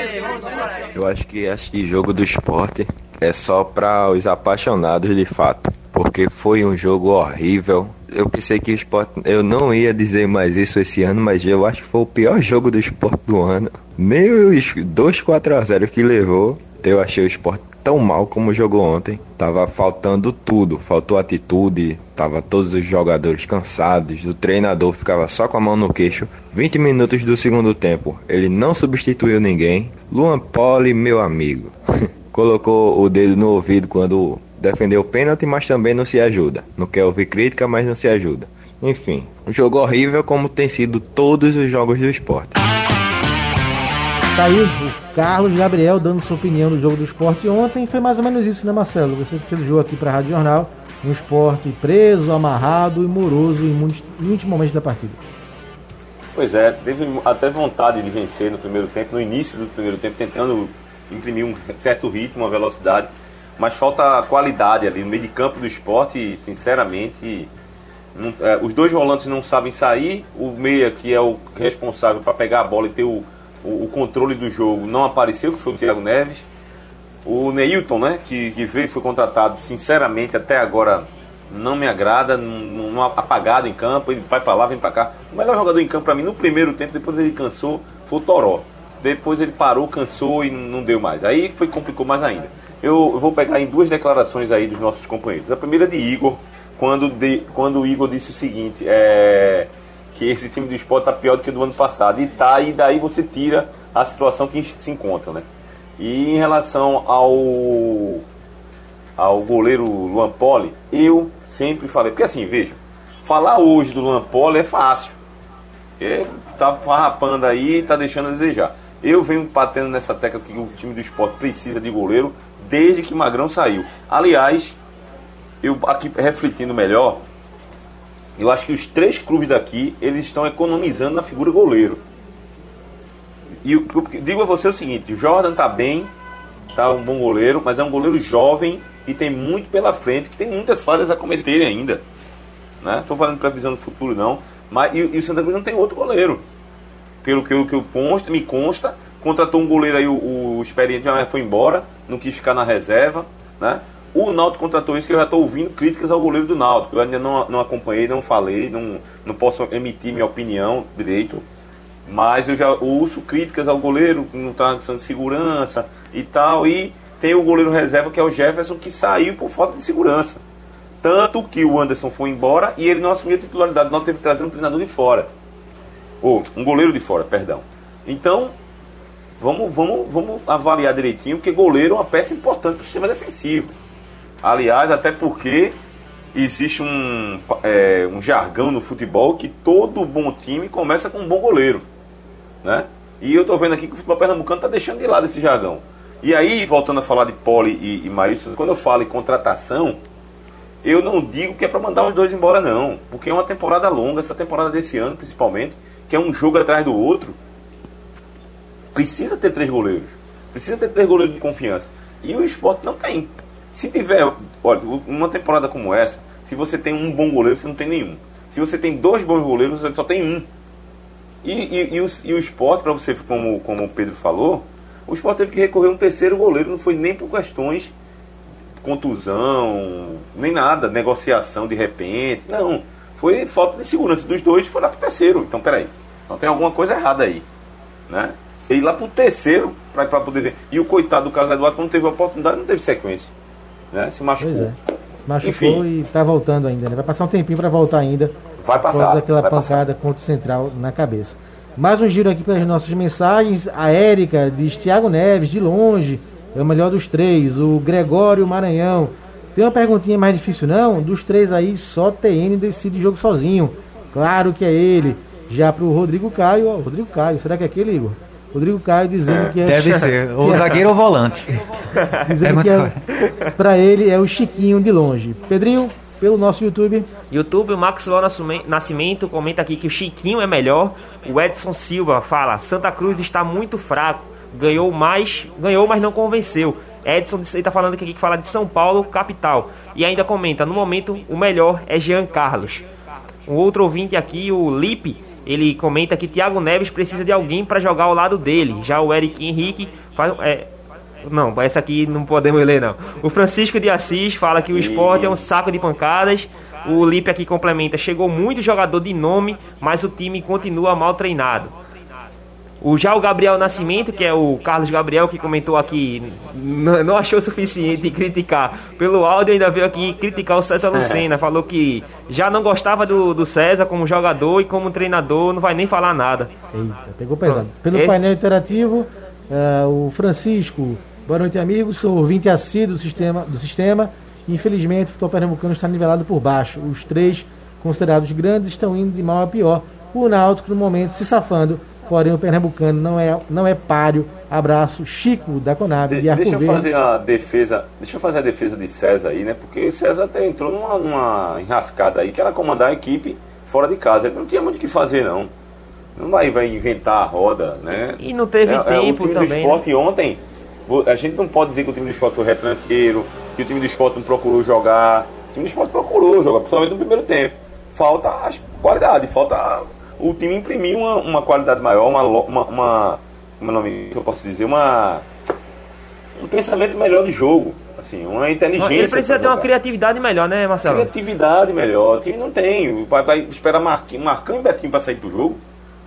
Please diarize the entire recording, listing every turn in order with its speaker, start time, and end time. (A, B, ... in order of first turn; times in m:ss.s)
0:00.9-0:31.7 A
0:32.3-0:42.6 A
0:44.3-0:55.2 B
0:56.3-1:07.5 C
1:08.1-1:16.4 C
1:17.2-1:45.4 C
1:46.0-1:48.2 C
1:49.2-1:55.2 C
1:56.0-2:04.8 C
2:05.6-2:07.2 C
2:08.4-2:12.0 C
2:13.6-2:16.1 C
2:16.7-2:22.0 C
2:22.8-2:26.4 C
2:27.2-2:41.4 C
2:42.1-2:50.4 C
2:51.0-2:55.3 C
2:56.2-2:58.5 C
2:59.4-3:03.8 C
3:04.4-3:05.8 C
3:06.3-3:11.8 C
3:12.6-3:20.0 C
3:20.8-3:27.4 C
3:28.9-3:40.4 C
3:41.4-3:47.9 C
3:48.8-3:57.4 C
3:58.1-4:03.3 C
4:03.9-4:04.7 C
4:04.4-4:30.8 B
4:05.4-4:05.8 C
4:08.6-4:09.8 C
4:29.3-4:29.5 C
4:29.6-4:31.8 D
4:32.2-4:37.1 B
4:32.3-4:33.0 D
4:33.2-4:33.5 E
4:37.3-4:52.8 E
4:53.5-5:00.7 E
5:01.2-5:11.7 E
5:04.7-5:05.4 C
5:12.8-5:26.5 E
5:20.9-5:21.2 C
5:26.7-5:46.9 B
5:27.4-5:28.2 E
5:46.1-5:55.5 C
5:56.2-6:15.2 C
5:58.2-5:59.8 E
6:16.4-6:19.7 C
6:18.8-6:21.1 E
6:20.8-6:25.6 C